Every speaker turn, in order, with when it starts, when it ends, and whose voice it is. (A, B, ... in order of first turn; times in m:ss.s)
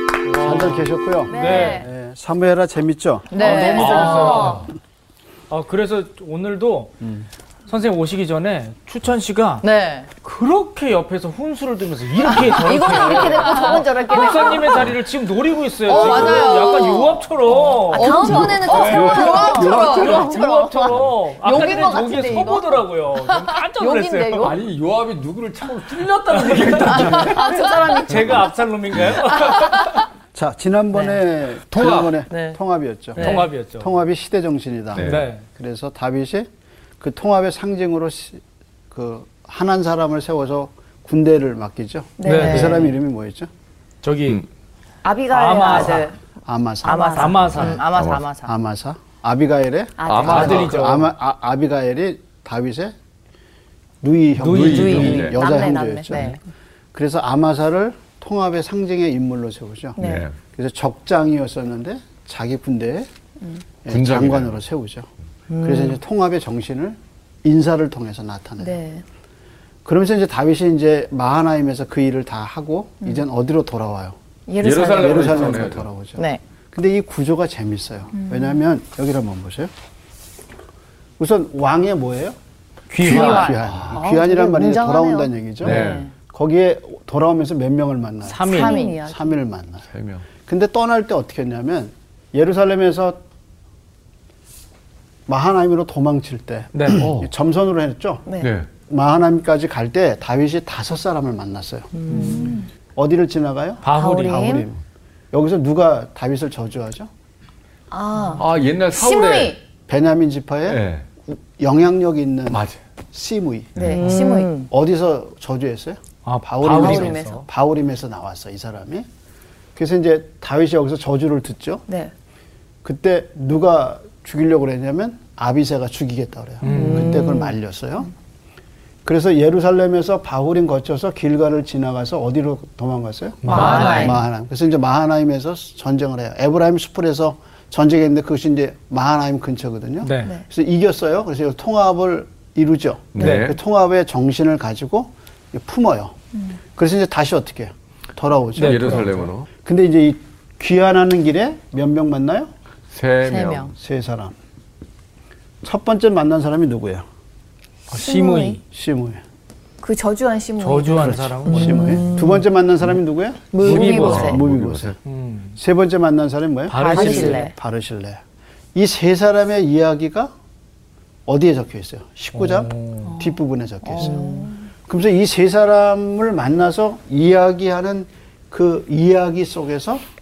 0:00.2-0:01.8 A
0:00.4-0:04.4 B
0:01.3-0:01.9 C
0:03.3-0:04.5 C
0:03.4-0:04.7 D
0:03.4-0:04.7 A
0:05.5-0:07.0 A
0:07.0-0:07.3 B
0:07.7-0:09.6 A
0:09.6-0:10.1 C
0:10.2-0:24.6 A
0:12.3-0:14.9 D
0:13.1-0:13.8 C
0:15.9-0:20.3 C
0:15.9-0:16.9 D
0:17.8-0:24.6 D
0:18.9-0:19.7 E
0:19.3-0:20.4 B
0:21.5-0:21.9 C
0:24.4-0:28.4 E
0:26.3-0:30.0 A
0:27.0-0:28.0 C
0:27.3-0:28.4 D
0:28.9-0:29.8 E
0:30.3-0:36.5 B
0:31.7-0:32.2 E
0:32.3-0:32.6 C
0:33.2-0:33.9 A
0:33.2-0:33.5 C
0:35.0-0:35.3 E
0:35.0-0:35.5 A
0:37.0-0:43.5 B
0:42.2-0:42.7 D
0:42.2-0:42.9 A
0:42.3-0:42.8 C
0:44.0-0:44.4 A
0:45.0-0:46.2 D
0:45.3-0:46.1 A
0:45.5-0:46.1 C
0:46.5-0:53.0 B
0:46.8-0:47.4 D
0:46.8-0:48.5 C
0:47.1-0:47.8 A
0:47.9-0:48.3 E
0:50.0-0:50.7 D
0:50.1-0:51.0 E
0:50.2-0:51.1 A
0:54.0-0:56.3 B
0:54.4-0:55.4 A
0:54.5-0:55.4 E
0:54.6-0:55.3 C
0:55.3-0:56.3 D
0:56.1-0:56.4 C
0:56.9-1:03.1 B
1:00.0-1:00.3 D
1:00.0-1:00.4 E
1:03.8-1:05.1 B
1:03.9-1:04.6 E
1:05.5-1:06.0 C
1:05.6-1:08.8 B
1:08.6-1:09.0 D
1:09.8-1:14.2 B
1:14.5-1:15.7 D
1:14.6-1:15.9 E
1:14.8-1:19.7 B
1:16.2-1:16.4 C
1:18.2-1:18.6 D
1:21.2-1:22.4 B
1:22.9-1:23.6 A
1:23.0-1:29.9 B
1:23.0-1:25.3 D
1:23.2-1:23.5 C
1:23.6-1:24.0 E
1:25.6-1:26.1 E
1:25.6-1:26.1 C
1:28.2-1:28.9 A
1:28.4-1:29.4 D
1:28.5-1:29.0 C
1:29.9-1:30.3 E
1:30.4-1:33.2 B
1:35.3-1:38.3 B
1:36.7-1:37.1 A
1:37.0-1:37.3 E
1:38.4-1:38.7 E
1:38.8-1:41.9 B
1:41.9-1:42.6 C
1:42.1-1:42.7 D
1:42.1-1:42.5 A
1:42.9-1:44.8 B
1:43.8-1:44.6 A
1:43.9-1:44.7 D
1:45.3-1:47.1 B
1:47.9-1:49.6 D
1:48.4-1:49.6 E
1:49.9-1:53.9 B
1:50.7-1:51.1 E
1:52.5-1:52.8 E
1:53.8-1:54.6 D
1:53.8-1:54.7 C
1:54.0-1:54.4 A
1:54.7-1:59.1 B
1:56.2-1:57.4 A
1:56.6-1:57.4 D
1:59.8-2:01.8 B
2:02.8-2:08.1 B
2:06.6-2:07.2 A
2:06.6-2:07.6 C
2:09.0-2:26.2 B
2:13.4-2:14.2 A
2:13.5-2:14.1 D
2:13.5-2:14.2 C
2:20.0-2:20.3 A
2:23.2-2:23.6 E
2:23.2-2:23.5 A
2:26.8-2:32.5 B
2:28.6-2:29.3 A
2:28.6-2:29.5 E
2:32.9-2:33.7 E
2:33.2-2:33.7 C
2:33.8-2:34.4 B
2:35.6-2:37.0 B
2:37.9-2:38.6 A
2:37.9-2:38.6 D
2:38.7-2:39.2 B
2:39.8-2:42.3 D
2:40.6-2:42.1 A
2:40.9-2:45.0 B
2:41.5-2:42.4 C
2:43.5-2:44.4 C
2:43.6-2:44.4 D
2:43.6-2:45.0 E
2:43.6-2:44.4 A
2:45.0-2:45.6 A
2:45.6-2:48.2 B
2:46.7-2:47.5 A
2:46.8-2:47.6 C
2:48.8-2:50.3 B
2:51.3-2:54.3 B
2:52.3-2:53.1 A
2:53.1-2:54.6 C
2:54.0-2:54.6 D
2:54.9-3:00.0 B